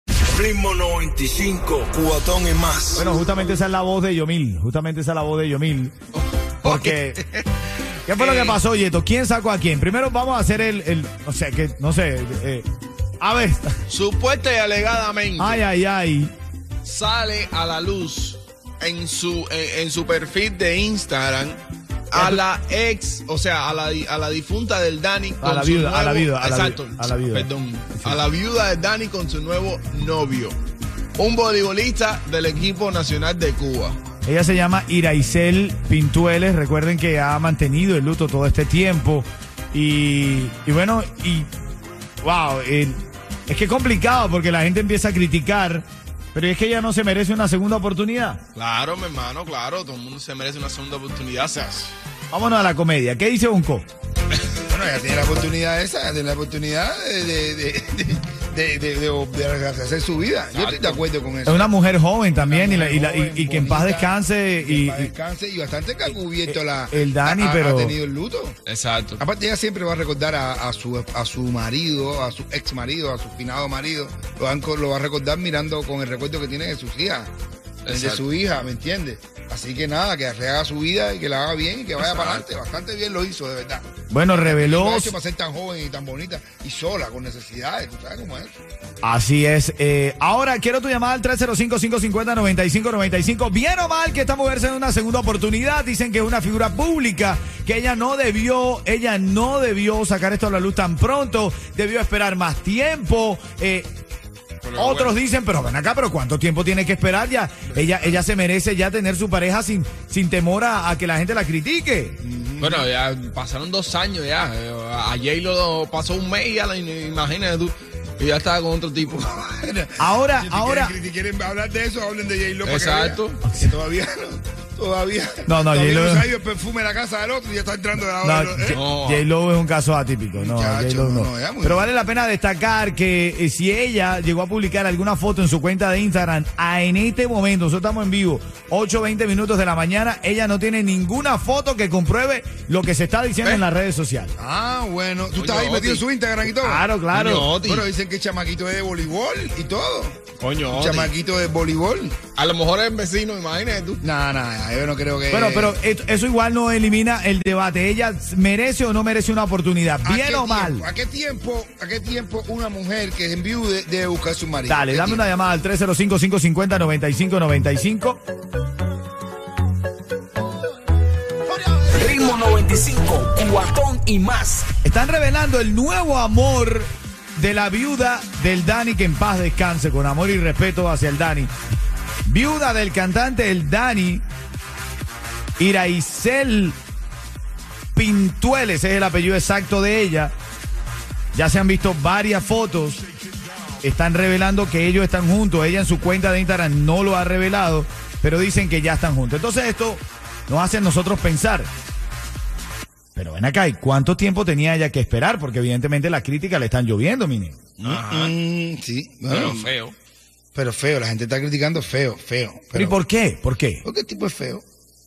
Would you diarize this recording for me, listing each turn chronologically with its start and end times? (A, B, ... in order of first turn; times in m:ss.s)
0:00.3-0:03.1 A
0:02.9-0:05.9 B
0:06.1-0:07.5 C
0:06.6-0:07.2 B
0:08.1-0:08.6 C
0:08.1-0:12.7 B
0:13.2-0:13.8 B
0:13.9-0:15.6 C
0:15.4-0:16.3 B
0:16.8-0:21.6 C
0:22.1-0:30.6 C
0:22.1-0:22.4 B
0:25.4-0:27.5 B
0:31.2-0:34.0 C
0:34.2-0:41.5 B
0:42.2-0:48.4 B
0:48.5-0:51.9 C
0:52.3-0:53.9 B
0:54.7-1:01.7 D
1:00.5-1:01.0 C
1:01.4-1:05.1 B
1:02.4-1:08.6 D
1:06.4-1:07.9 B
1:08.6-1:09.2 C
1:09.2-1:17.3 D
1:17.8-1:18.2 C
1:17.9-1:28.6 D
1:22.0-1:22.4 C
1:24.1-1:25.1 B
1:29.0-1:43.9 B
1:44.6-1:45.2 C
1:44.8-1:52.2 B
1:52.2-1:52.9 D
1:52.6-1:59.4 C
1:59.4-2:08.8 D
2:00.0-2:00.9 B
2:02.6-2:03.4 C
2:05.5-2:06.3 B
2:08.2-2:24.3 B
2:08.7-2:09.2 C
2:10.3-2:11.8 D
2:24.4-2:26.8 D
2:25.3-2:26.0 C
2:26.5-2:27.5 B
2:27.1-2:27.9 C
2:27.6-2:32.2 D
2:30.4-2:31.1 C
2:32.4-2:34.0 C
2:34.0-2:35.8 D
2:35.3-2:40.8 B
2:40.0-2:45.2 D
2:44.7-2:48.2 B
2:51.5-2:52.4 A
2:51.9-2:54.7 E
2:54.8-3:01.5 B
3:02.2-3:04.2 B
3:05.6-3:06.8 B
3:07.9-3:10.3 B
3:11.3-3:13.0 B
3:13.8-3:21.7 B
3:23.2-3:27.6 B
3:27.8-3:28.3 C
3:27.8-3:29.7 D
3:29.3-3:30.0 C
3:30.5-3:33.0 D
3:32.7-3:33.8 B
3:33.8-3:34.6 D